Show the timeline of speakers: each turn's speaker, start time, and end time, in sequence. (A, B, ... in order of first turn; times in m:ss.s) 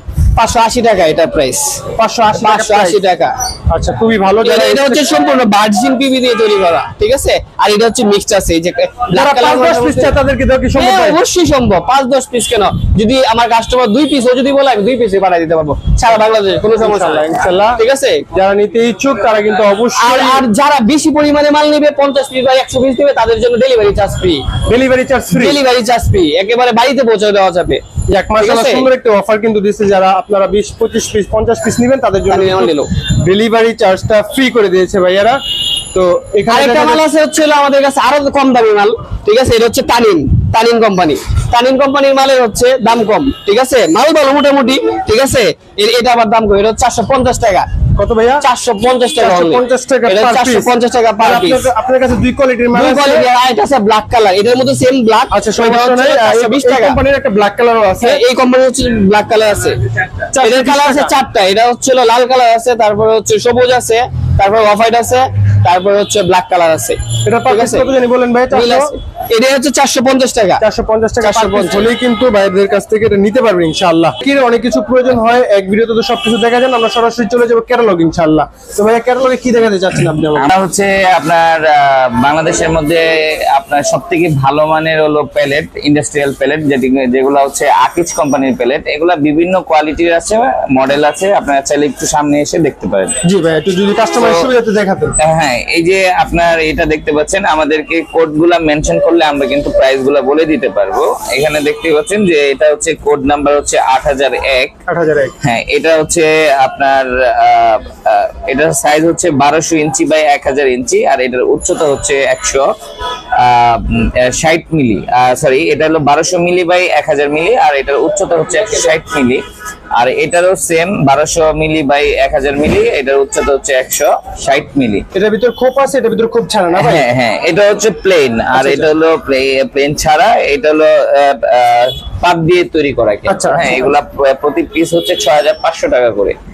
0:00.4-0:01.8 A
0:02.0-0:03.0 B
0:02.4-0:03.3 A
0:03.7-0:05.1 B
0:04.4-0:10.1 A
0:09.1-0:11.2 B
0:10.8-0:18.2 A
0:16.8-0:20.4 B
0:20.0-0:24.4 A
0:24.7-0:25.6 B
0:25.3-0:27.8 A
0:28.1-0:35.4 B
0:28.4-0:28.9 A
0:32.3-0:32.9 A
0:35.9-0:37.0 B
0:36.5-0:47.7 A
0:48.0-0:48.4 B
0:48.4-0:51.7 A
0:49.2-0:53.3 B
0:52.7-0:57.0 A
0:55.3-0:58.2 B
0:58.0-0:59.8 A
1:00.3-1:01.1 B
1:00.4-1:07.9 A
1:07.2-1:08.9 B
1:08.5-1:10.6 A
1:10.6-1:20.5 B
1:11.2-1:11.9 A
1:20.3-1:33.2 C
1:33.2-1:35.2 B
1:34.2-1:34.5 C
1:35.2-1:44.7 C
1:44.9-1:45.3 B
1:45.4-1:52.7 C
1:53.3-1:59.4 C
2:00.0-2:05.0 C
2:05.1-2:07.0 B
2:06.8-2:16.4 C
2:08.5-2:08.9 B
2:13.3-2:13.8 B